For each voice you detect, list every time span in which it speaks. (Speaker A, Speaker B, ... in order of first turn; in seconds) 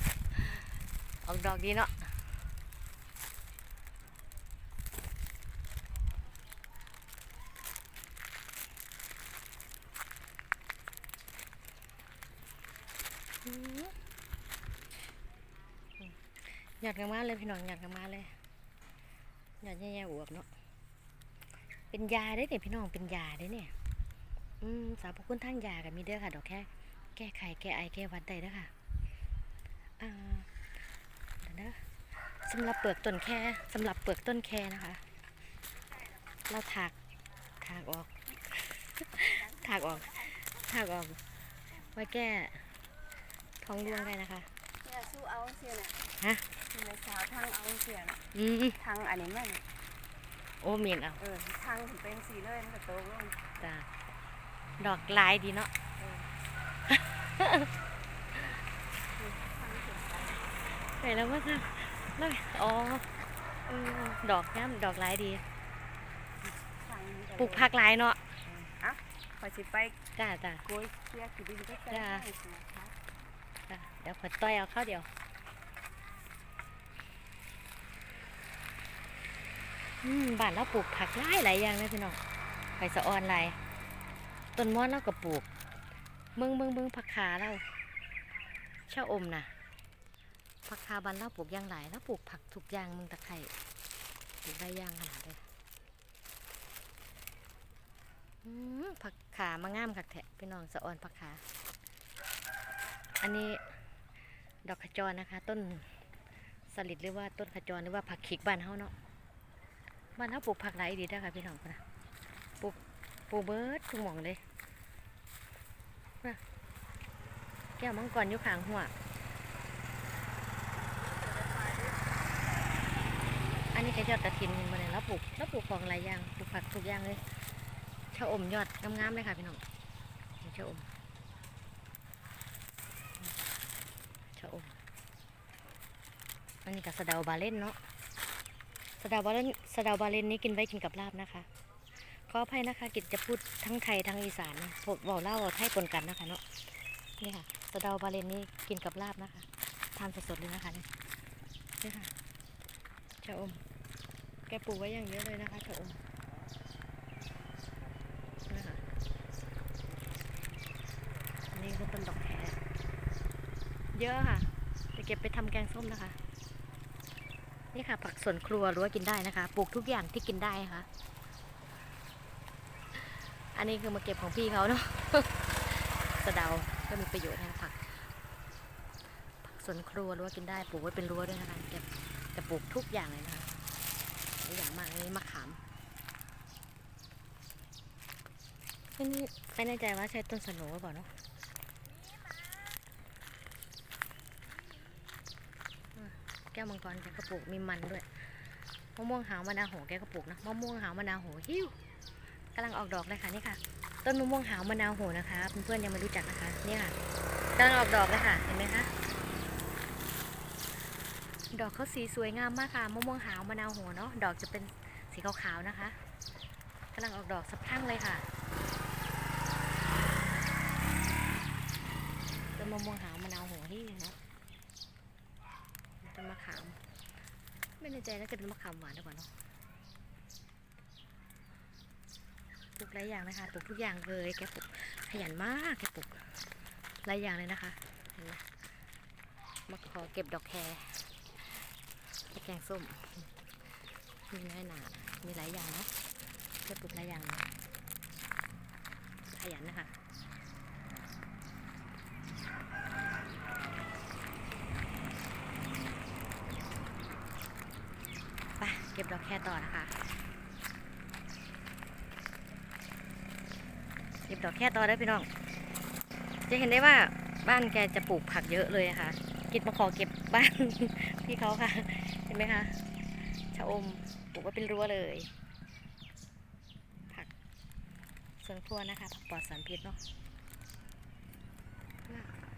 Speaker A: 0.3-0.6, 1.2-2.1, 13.4-14.0, 16.0-18.4, 19.6-20.5, 21.9-23.7, 24.6-28.7, 30.0-30.5, 31.4-35.0, 36.5-37.0, 37.6-41.2, 41.7-42.7, 43.6-44.5, 46.2-46.5, 48.3-48.8, 50.6-51.2, 53.6-53.9, 54.8-55.7, 56.9-57.7, 60.9-63.1, 63.7-65.4, 67.4-68.2, 70.2-70.7, 71.9-72.3, 73.7-75.1, 80.0-82.2, 82.8-83.6, 84.6-85.5, 86.4-87.7, 88.9-89.5, 90.7-93.5, 94.4-95.4, 98.4-101.4, 103.2-103.6, 104.7-106.0, 106.7-108.9, 110.2-111.8, 113.3-114.4, 117.8-118.9, 123.7-127.2, 128.1-129.6, 130.4-130.9, 134.4-134.8, 136.7-137.8, 139.0-141.5, 142.1-146.4, 147.2-150.9, 151.8-152.1, 153.2-153.6, 154.5-156.0, 158.5-158.8, 161.5-162.6, 163.9-166.2, 167.7-170.9, 172.9-177.9, 179.4-183.5, 184.4-185.6, 189.0-191.1, 195.9-198.4, 199.0-201.8, 202.6-207.0, 207.6-208.9, 211.5-216.0, 216.9-218.3, 222.5-224.2, 226.0-226.8, 227.8-229.3, 232.8-236.4, 237.0-238.4, 239.7-241.7, 242.2-243.3, 244.3-245.9, 246.6-247.5, 249.3-249.9, 258.6-259.9, 264.3-265.3, 266.5-275.3, 278.4-280.0
Speaker B: 44.8-46.0, 46.6-48.2, 48.8-49.6, 51.2-53.4, 56.0-56.3, 59.2-60.5, 66.7-67.7, 68.5-70.0, 70.6-73.0